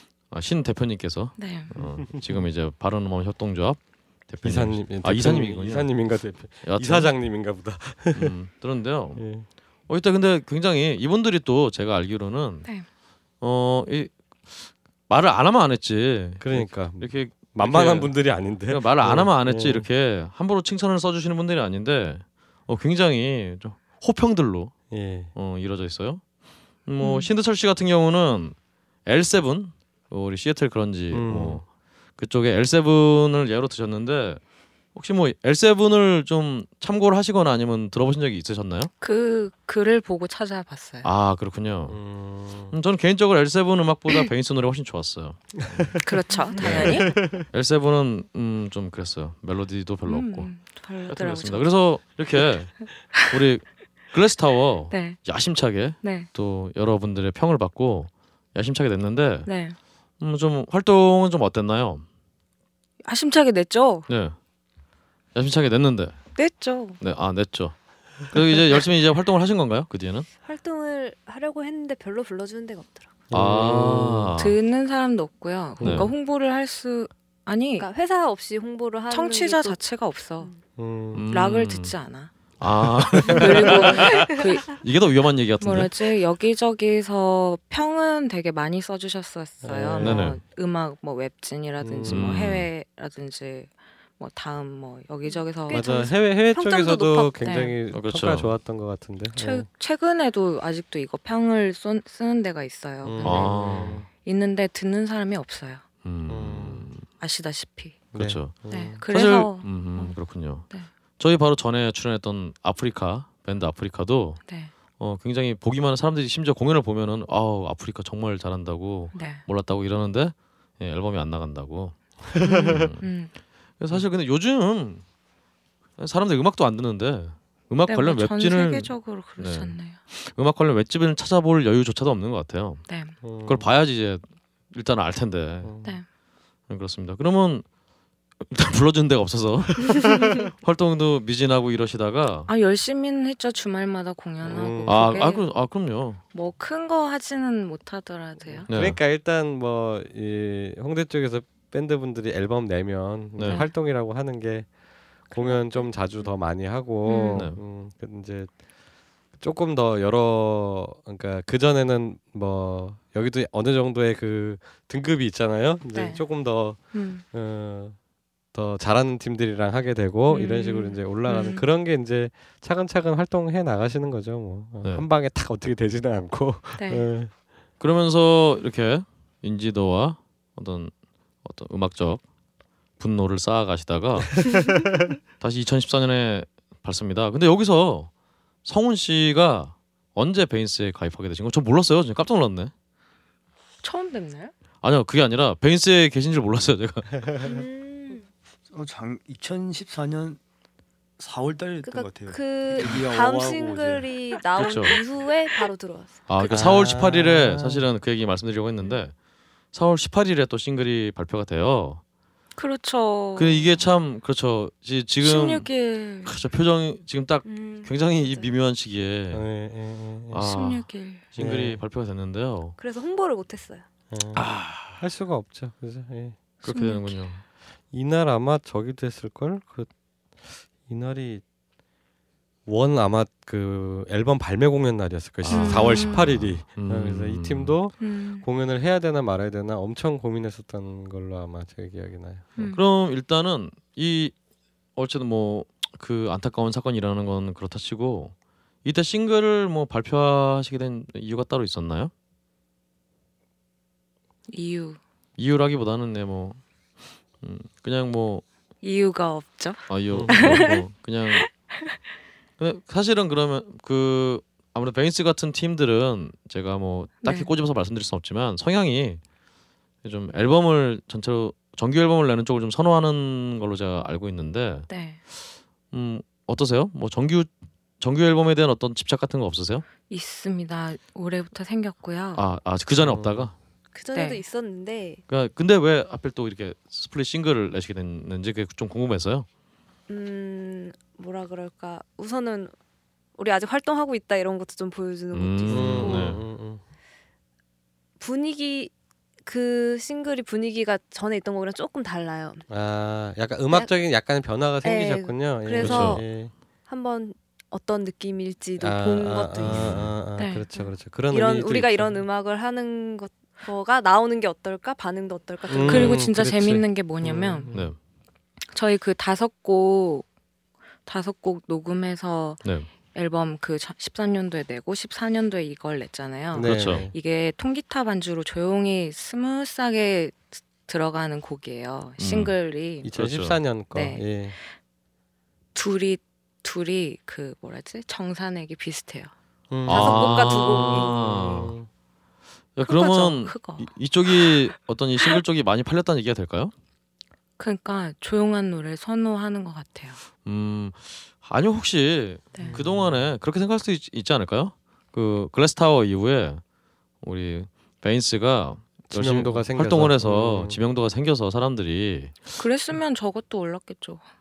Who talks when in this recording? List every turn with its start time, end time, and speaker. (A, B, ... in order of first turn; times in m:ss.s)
0:00.3-0:05.9 A
0:01.4-0:01.7 B
0:01.8-0:02.4 C
0:04.4-0:08.3 C
0:06.6-0:07.1 A
0:08.1-0:09.2 A
0:09.2-0:09.5 C
0:09.9-0:12.7 A
0:13.4-0:14.2 A
0:15.1-0:24.8 A
0:16.4-0:19.9 C
0:24.9-0:25.3 C
0:25.4-0:26.2 A
0:26.9-0:31.6 A
0:27.0-0:27.3 B
0:31.1-0:31.6 C
0:32.2-0:34.4 A
0:35.0-0:38.9 A
0:39.0-0:41.1 B
0:41.0-0:42.0 A
0:41.9-0:42.7 C
0:42.7-0:45.9 A
0:46.0-0:47.1 B
0:46.4-0:47.0 D
0:46.6-0:50.5 A
0:46.7-0:47.4 C
0:50.1-0:51.7 B
0:51.1-0:59.5 A
0:52.8-0:53.4 B
0:54.9-0:55.2 B
0:56.0-0:56.3 B
0:59.4-0:59.8 B
1:00.2-1:02.0 A
1:03.0-1:04.1 B
1:04.1-1:04.4 A
1:05.4-1:06.2 A
1:06.4-1:07.0 B
1:07.0-1:10.3 A
1:10.4-1:13.1 D
1:13.3-1:14.3 C
1:13.3-1:14.6 A
1:14.4-1:17.9 B
1:15.8-1:16.1 C
1:15.8-1:16.1 A
1:17.8-1:19.8 D
1:19.1-1:20.5 B
1:20.8-1:21.2 C
1:21.1-1:22.0 A
1:21.3-1:22.3 B
1:22.6-1:26.0 A
1:23.2-1:24.8 B
1:24.0-1:24.3 D
1:25.6-1:36.2 B
1:29.6-1:30.3 C
1:30.0-1:30.4 A
1:31.8-1:32.3 C
1:32.1-1:32.7 A
1:35.3-1:37.4 D
1:35.7-1:39.7 C
1:37.4-1:37.8 B
1:37.9-1:38.5 A
1:39.3-1:45.8 B
1:43.0-1:44.1 C
1:43.2-1:44.0 A
1:46.0-1:47.0 A
1:46.3-1:46.9 C
1:47.2-1:48.1 B
1:48.1-1:49.0 C
1:48.2-1:50.7 A
1:48.7-1:50.2 B
1:51.2-1:54.4 A
1:54.5-1:54.7 B
1:55.0-2:02.0 A
1:59.1-1:59.4 B
2:02.4-2:03.3 B
2:02.7-2:03.0 A
2:03.8-2:05.0 A
2:06.0-2:12.8 A
2:07.9-2:10.0 B
2:12.9-2:13.2 B
2:13.2-2:13.7 C
2:13.4-2:15.7 A
2:15.6-2:16.0 C
2:16.7-2:17.6 A
2:18.4-2:22.5 A
2:22.5-2:25.5 B
2:24.4-2:25.1 C
2:24.8-2:26.2 A
2:26.3-2:28.7 B
2:28.6-2:34.7 C
2:28.7-2:29.0 A
2:33.4-2:33.6 A
2:33.4-2:33.7 B
2:35.3-2:38.5 C
2:35.3-2:36.3 B
2:37.0-2:37.5 B
2:39.4-2:48.0 C
2:45.9-2:46.2 B
2:46.9-2:47.2 B
2:48.5-2:57.3 C
2:50.3-2:51.7 B
2:56.8-2:57.1 B
2:57.8-3:00.9 A
3:01.4-3:02.2 A
3:03.0-3:04.7 A
3:05.4-3:08.1 A
3:08.6-3:12.7 A
3:13.8-3:14.5 B
3:14.8-3:17.1 A
3:17.4-3:18.3 D
3:18.7-3:20.4 E
3:21.2-3:24.1 E
3:21.8-3:26.6 D
3:24.6-3:25.0 A
3:26.3-3:29.1 A
3:26.5-3:27.9 C
3:29.7-3:32.0 A
3:32.6-3:33.8 B
3:33.4-3:35.7 A
3:35.2-3:36.3 B
3:36.2-3:39.5 A
3:37.4-3:38.5 D
3:39.3-3:40.4 C
3:40.3-3:42.8 A
3:40.4-3:41.3 B
3:41.4-3:41.8 C
3:42.8-3:43.9 D
3:44.1-3:46.4 C
3:44.4-3:45.0 A
3:46.6-3:47.3 B
3:46.6-3:47.4 A
3:47.9-3:49.9 C
3:50.9-3:51.4 C
3:52.7-4:02.6 C
3:55.4-3:57.8 A
3:55.5-3:56.3 B
3:58.0-3:58.5 B
4:02.7-4:04.3 A
4:05.0-4:08.3 A
4:08.8-4:12.1 A
4:14.5-4:15.0 B
4:15.4-4:16.6 A
4:17.4-4:18.4 A
4:18.8-4:20.8 B
4:19.9-4:21.4 A
4:20.1-4:20.6 C
4:22.6-4:29.2 A
4:27.2-4:27.5 B
4:30.0-4:34.9 A
4:34.9-4:35.2 B
4:35.9-4:37.5 A
4:38.0-4:39.9 A
4:40.0-4:42.4 B
4:42.4-4:43.5 A
4:43.0-4:43.5 C
4:43.9-4:45.2 D
4:44.1-4:44.4 B
4:45.3-4:49.5 A
4:50.1-4:52.7 D
4:53.4-4:56.4 D
4:55.3-4:56.4 A
4:55.7-4:56.8 C
4:58.2-4:58.9 D
4:59.5-5:02.7 D
5:02.7-5:06.5 C
5:04.8-5:06.2 D
5:05.8-5:06.2 A
5:06.9-5:10.0 D
5:08.8-5:12.2 C
5:09.6-5:10.1 A
5:10.4-5:10.9 B
5:11.3-5:16.2 D
5:15.7-5:17.9 C
5:15.8-5:17.8 B
5:17.7-5:18.0 A
5:18.7-5:20.3 B
5:21.0-5:33.1 B
5:22.6-5:22.9 A
5:26.5-5:27.1 C
5:26.6-5:27.1 A
5:32.2-5:32.6 A
5:33.0-5:34.6 C
5:33.2-5:33.6 A
5:33.9-5:34.6 B
5:35.8-5:39.3 B
5:39.7-5:41.9 C
5:39.9-5:41.7 A
5:39.9-5:41.1 D
5:42.8-5:46.7 A
5:42.8-5:44.5 B
5:47.6-5:50.2 B
5:50.4-5:56.6 A
5:52.6-5:53.2 C
5:57.2-6:02.4 A
5:59.1-6:00.8 C
6:02.6-6:04.2 B